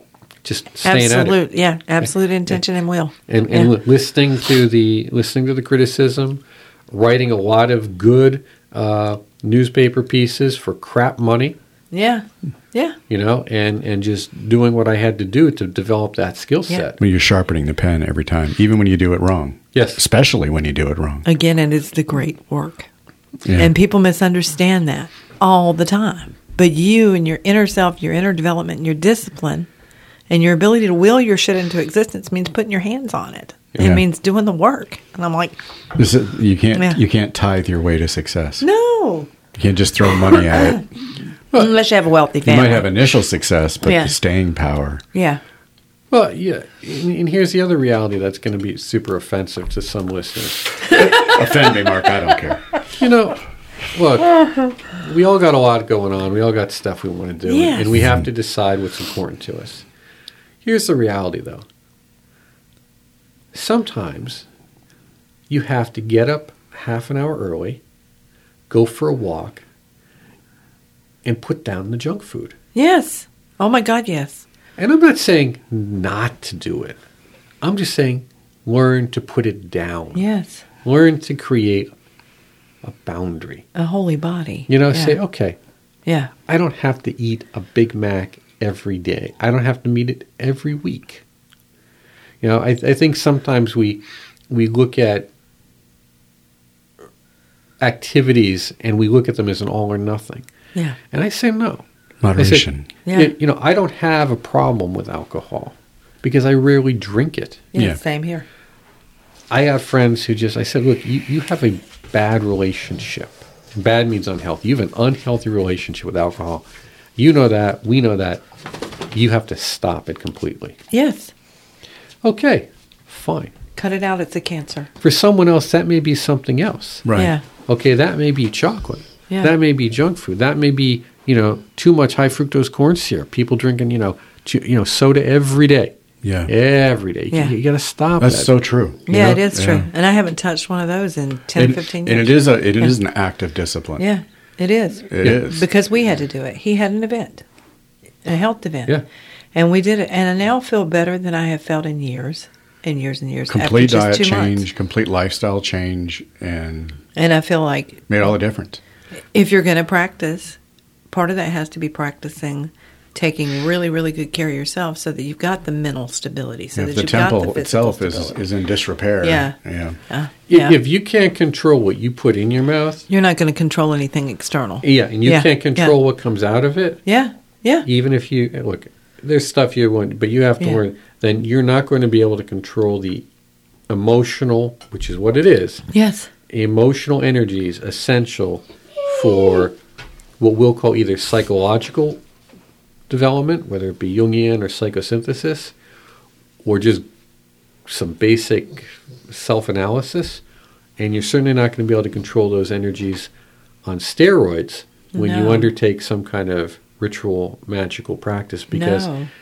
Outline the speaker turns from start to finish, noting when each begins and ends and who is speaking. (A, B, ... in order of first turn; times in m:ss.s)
0:00.4-0:01.4 A
0:00.8-0:03.7 B
0:02.0-0:02.6 A
0:03.1-0:11.6 A
0:11.9-0:13.0 B
0:13.1-0:17.0 A
0:17.0-0:21.2 C
0:19.7-0:20.0 A
0:21.2-0:22.9 B
0:23.4-0:23.7 C
0:23.5-0:29.7 B
0:30.3-0:35.6 B
0:33.8-0:34.0 C
0:36.0-0:38.6 C
0:36.7-0:37.0 B
0:38.6-0:39.3 B
0:39.6-0:40.9 C
0:40.1-0:40.8 B
0:41.5-0:42.9 B
0:42.4-0:45.0 C
0:43.8-0:44.1 B
0:45.1-0:45.4 B
0:46.1-0:50.9 A
0:50.9-0:52.7 C
0:53.0-0:59.8 A
0:57.4-0:57.8 B
0:58.0-0:58.2 C
1:00.6-1:01.6 A
1:03.5-1:04.4 A
1:05.5-1:07.8 A
1:08.7-1:09.6 A
1:11.2-1:12.6 A
1:12.7-1:14.4 B
1:14.8-1:17.0 A
1:17.6-1:20.2 A
1:20.1-1:20.6 B
1:20.8-1:21.9 A
1:22.8-1:23.6 A
1:23.7-1:25.2 B
1:24.7-1:25.6 A
1:26.0-1:26.3 B
1:26.4-1:31.2 A
1:32.4-1:35.3 A
1:37.8-1:40.5 A
1:41.1-1:47.7 A
1:42.2-1:42.9 C
1:43.0-1:43.3 B
1:47.7-1:48.4 B
1:47.7-1:48.0 C
1:49.5-1:56.6 A
1:57.2-1:58.4 A
1:59.1-2:00.8 A
2:00.9-2:01.3 B
2:02.2-2:03.5 A
2:03.8-2:04.9 B
2:05.0-2:07.1 A
2:07.0-2:07.3 C
2:07.1-2:07.4 B
2:07.6-2:18.5 A
2:16.2-2:16.5 C
2:18.2-2:19.9 C
2:19.1-2:22.9 B
2:19.1-2:19.4 A
2:21.5-2:24.0 C
2:24.0-2:27.4 B
2:25.1-2:25.6 C
2:28.2-2:28.9 B
2:29.5-2:34.6 B
2:33.5-2:37.0 C
2:37.2-2:38.0 B
2:38.1-2:38.8 C
2:39.3-2:40.6 B
2:41.1-2:48.4 B
2:46.7-2:50.0 C
2:49.2-2:49.6 B
2:50.1-2:50.8 B
2:50.5-2:53.1 A
2:53.1-2:56.0 B
2:54.8-2:57.0 A
2:57.0-2:57.8 B
2:57.8-3:03.3 A
3:03.9-3:05.9 A
3:05.9-3:06.3 B
3:06.5-3:09.8 A
3:10.4-3:12.2 A
3:13.1-3:15.7 A
3:16.6-3:17.0 A
3:17.8-3:20.4 A
3:21.0-3:23.3 A
3:23.8-3:29.1 A
3:25.1-3:25.7 B
3:28.7-3:29.3 B